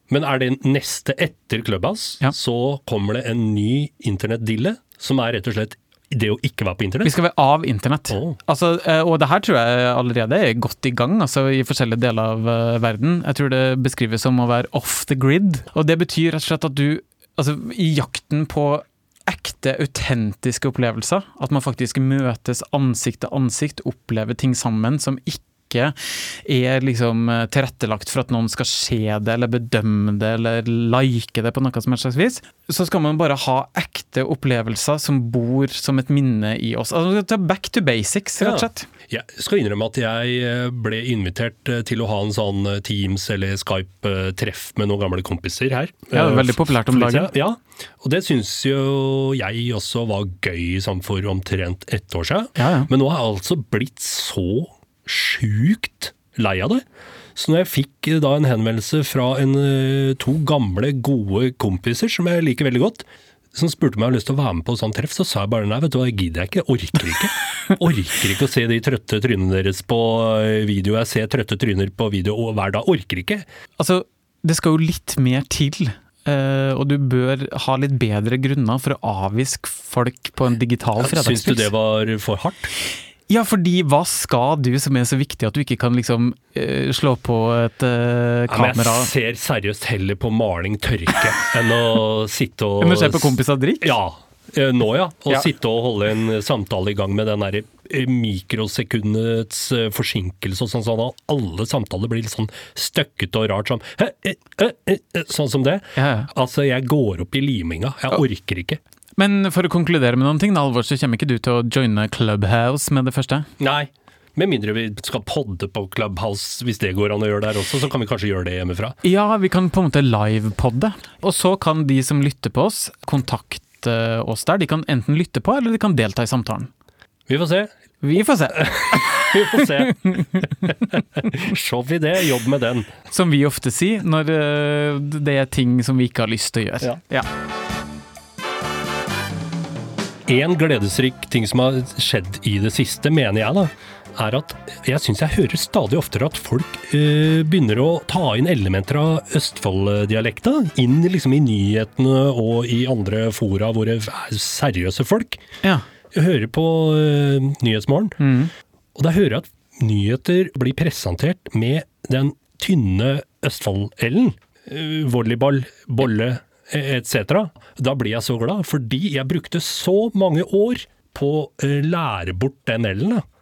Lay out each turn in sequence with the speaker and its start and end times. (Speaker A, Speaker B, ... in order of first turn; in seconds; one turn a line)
Speaker A: 0.1-7.2
Speaker B: 7.0-38.9
Speaker A: 8.1-8.4
Speaker A: 38.4-56.8
Speaker B: 46.1-47.3
Speaker B: 52.6-52.9
Speaker A: 57.4-73.5
Speaker B: 73.8-81.7
Speaker A: 81.0-82.7
Speaker B: 83.3-89.1
Speaker A: 88.5-108.8
Speaker B: 92.8-94.0
Speaker B: 106.0-106.3
Speaker B: 109.2-113.5
Speaker A: 113.6-119.0
Speaker B: 119.0-126.7
Speaker A: 127.3-127.7
Speaker B: 128.0-130.7
Speaker A: 128.5-132.9
Speaker B: 133.1-137.3
Speaker A: 140.3-155.4
Speaker A: 156.1-158.2
Speaker B: 158.2-158.5
Speaker A: 159.0-173.2